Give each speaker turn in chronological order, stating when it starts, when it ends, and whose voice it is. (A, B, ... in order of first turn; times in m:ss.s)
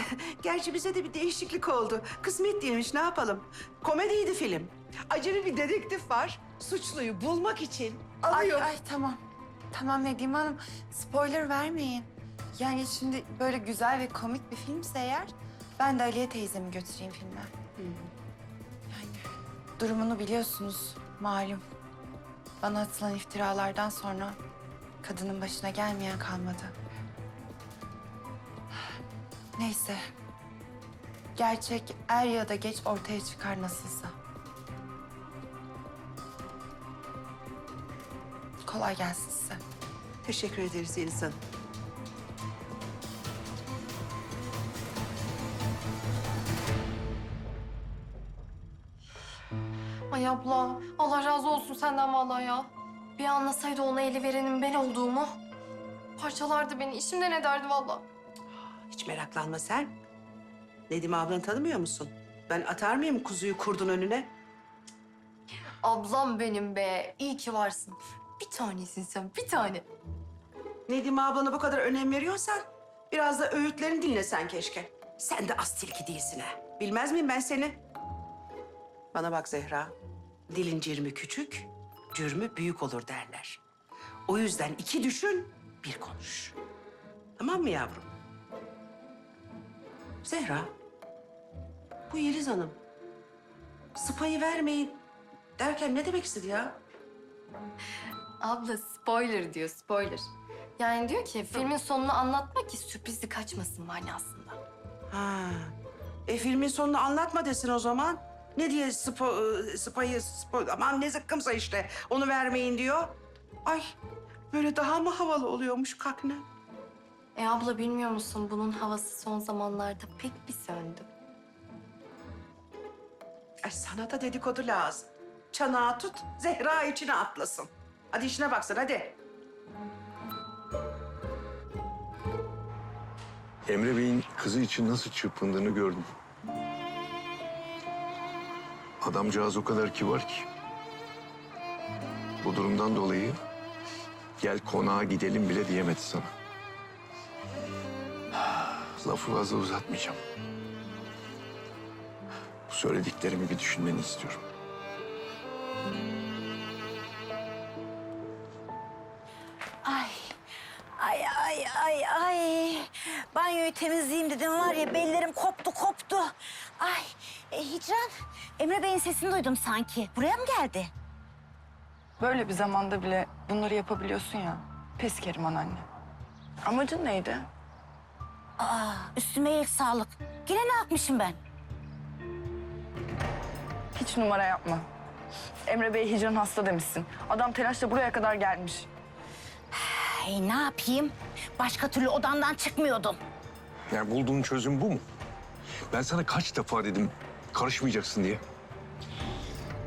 0:00.4-0:08.6 A
0:08.2-0:09.2 B
0:09.7-0:17.5 B
0:18.9-0:19.2 B
0:19.8-0:21.6 B
0:22.6-0:24.4 B
0:25.0-0:26.7 B
0:29.6-0:30.0 B
0:31.4-0:34.1 B
0:38.6-0:39.6 B
0:40.2-0:41.4 A
0:50.1-0:55.4 C
0:56.2-0:58.1 C
0:58.9-0:59.9 A
1:00.9-1:04.3 A
1:05.8-1:09.8 C
1:10.9-1:17.8 A
1:19.1-1:19.9 A
1:20.5-1:23.6 A
1:24.3-1:26.6 A
1:27.4-1:28.1 A
1:30.2-1:30.7 A
1:32.1-1:32.8 A
1:33.9-1:35.0 A
1:35.6-1:36.8 A
1:38.4-1:44.6 C
1:45.1-1:45.7 A
1:46.3-1:53.9 A
1:54.5-1:56.4 A
1:57.3-2:01.1 C
2:03.6-2:09.2 A
2:13.7-2:16.1 D
2:19.0-2:20.5 D
2:22.4-2:23.4 D
2:24.4-2:26.3 D
2:29.0-2:30.2 D
2:32.7-2:34.4 D
2:39.8-2:40.3 E
2:41.0-2:50.9 E
2:52.2-2:55.8 F
2:56.6-2:57.5 F
2:58.6-3:01.4 E
3:03.9-3:04.9 F
3:05.6-3:08.9 F
3:09.7-3:13.2 E
3:13.9-3:15.0 D
3:15.9-3:18.4 D